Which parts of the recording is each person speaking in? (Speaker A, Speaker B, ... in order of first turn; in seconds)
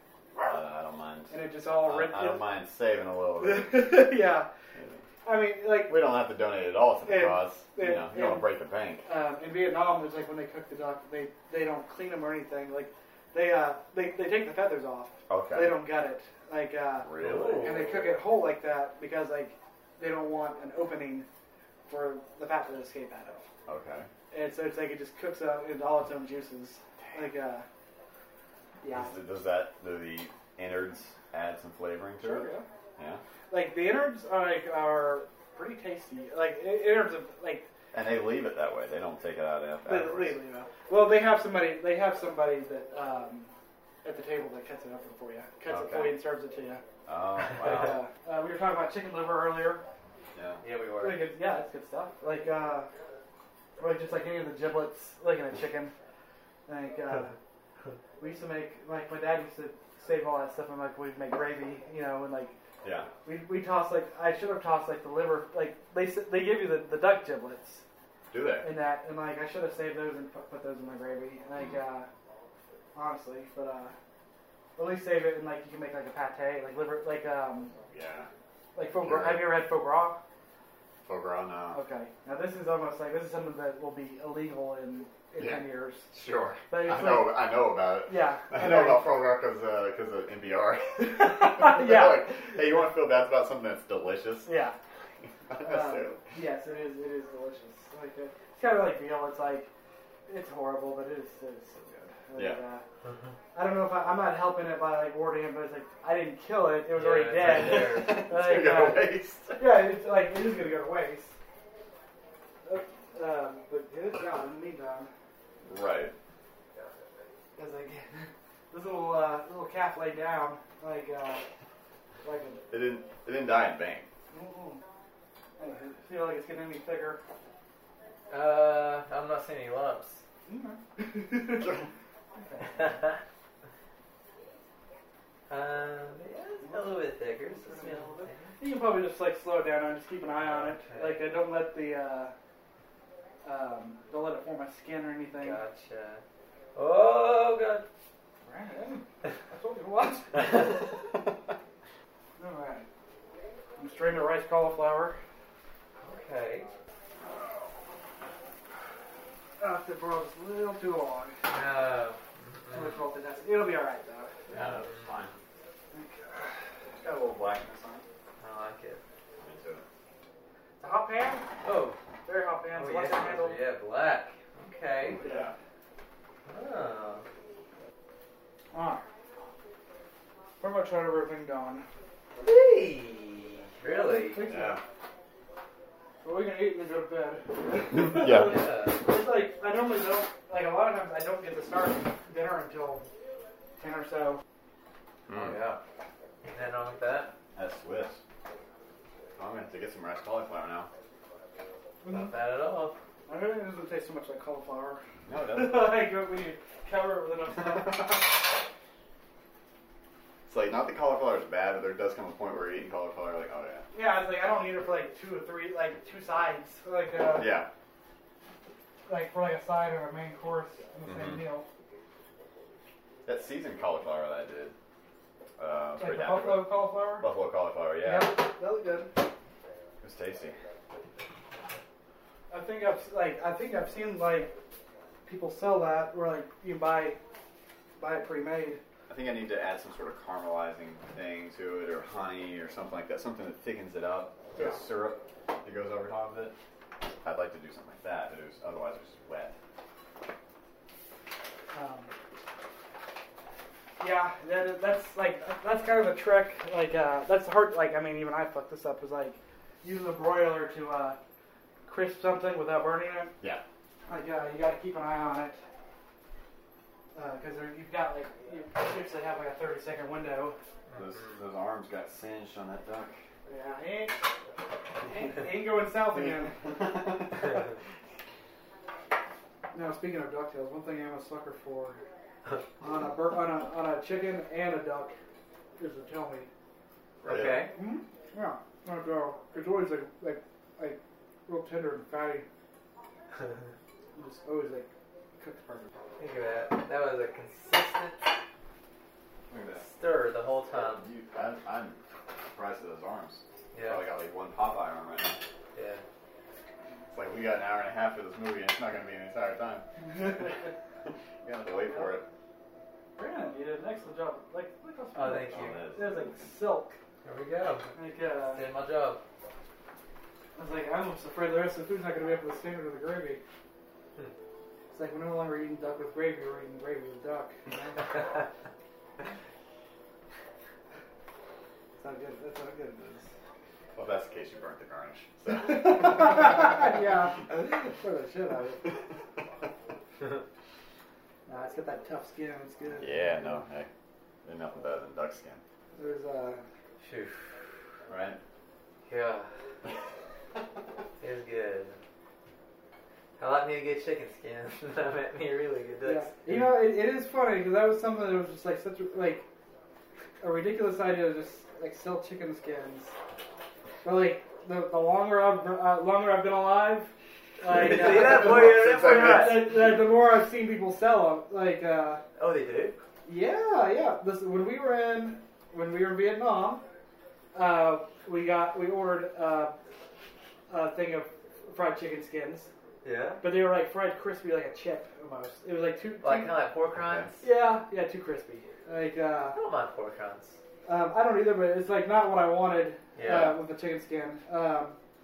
Speaker A: 0.4-4.1, 4.8-5.0, 5.9-9.1, 15.3-15.8, 17.0-17.7, 23.7-24.1, 28.9-33.2, 37.9-40.4, 45.7-46.2, 47.1-48.0, 50.4-50.6, 62.8-63.1, 68.3-68.7, 77.9-78.3, 79.0-79.7, 81.1-81.8, 85.4-94.5, 95.2-96.2, 107.4-109.7, 115.6-116.1, 122.7-124.1, 131.6-131.9, 164.5-165.4, 167.0-168.1, 169.4-169.8, 175.0-175.6, 184.5-184.8, 187.9-188.6, 195.3-195.6, 197.6-198.2, 199.4-200.9, 205.3-205.9, 210.5-213.8, 217.3-217.7, 221.1-221.4, 223.3-224.8, 225.6-228.4, 230.0-230.6, 239.1-246.6, 247.2-249.5, 270.9-273.1, 276.2-277.6, 287.2-287.7, 299.5-299.9, 300.9-305.4, 307.1-309.9, 311.4-312.2, 315.4-316.5, 333.9-336.7, 343.0-343.9, 344.4-345.6, 348.1-348.4, 368.3-369.5, 387.0-387.3, 393.2-393.5
Speaker B: 1.3-2.5, 3.4-4.5, 5.2-6.0, 7.1-8.5, 9.1-21.3, 21.9-23.5, 24.3-27.6, 28.8-29.1, 32.2-32.6, 33.5-37.7, 39.9-43.5, 44.0-46.8, 47.6-49.8, 51.0-52.9, 53.8-55.9, 56.7-57.4, 58.2-62.5, 63.2-67.8, 68.6-72.1, 73.0-74.0, 74.8-77.7, 78.8-80.2, 81.7-86.1, 86.7-87.5, 88.1-89.0, 91.0-92.4, 94.5-94.8, 95.6-99.7, 100.3-102.8, 103.5-111.4, 112.7-115.1, 117.6-121.4, 122.2-122.6, 124.3-124.8, 125.6-127.2, 130.5-131.8, 132.4-133.1, 136.6-136.9, 137.5-142.3, 143.4-145.6, 148.4-150.7, 152.4-152.9, 153.8-155.2, 159.6-161.4, 162.7-164.5, 165.9-166.7, 170.8-171.5, 172.3-173.6, 175.2-175.5, 178.7-179.1, 180.6-181.9, 183.9-184.8, 186.2-193.1, 193.8-194.4, 202.0-202.3, 203.3-208.4, 213.9-217.6, 219.1-221.7, 226.0-227.3, 228.0-229.2, 232.5-234.5, 235.2-237.2, 238.0-238.8, 251.7-252.1, 254.0-261.2, 261.9-263.3, 264.1-265.6, 267.1-270.6, 273.5-274.2, 275.0-276.8, 279.7-282.0, 282.8-285.2, 285.8-286.5, 287.7-292.5, 294.1-295.9, 310.0-310.7, 311.8-312.2, 313.2-317.0, 317.9-318.6, 320.6-323.4, 324.9-328.2, 331.9-333.3, 335.5-339.0, 341.5-343.6, 345.9-346.6, 356.0-359.4, 360.4-363.1, 364.0-372.2, 373.2-376.8, 377.5-379.8, 380.7-382.7, 383.4-386.6, 387.4-389.6, 390.9-395.0
Speaker C: 17.2-18.2, 50.6-51.3, 103.0-103.3, 106.9-108.2, 128.3-130.2, 132.8-133.2, 135.5-138.6, 140.4-141.4, 145.3-146.2, 146.8-147.9, 156.0-156.7, 161.5-163.0, 164.5-165.1, 168.4-169.0, 171.6-172.0, 172.7-175.2, 176.5-177.3, 182.4-184.5, 188.3-189.0, 195.3-195.8, 196.5-197.3, 202.1-203.0, 287.2-287.7, 296.2-298.3, 299.8-301.1, 303.7-304.0, 305.8-306.0, 315.1-315.8, 317.2-319.2, 347.0-347.5, 349.1-349.5, 351.2-352.0, 353.4-356.6, 367.7-369.7, 372.4-373.0, 383.0-383.4, 386.2-387.4, 389.5-390.6, 393.2-393.6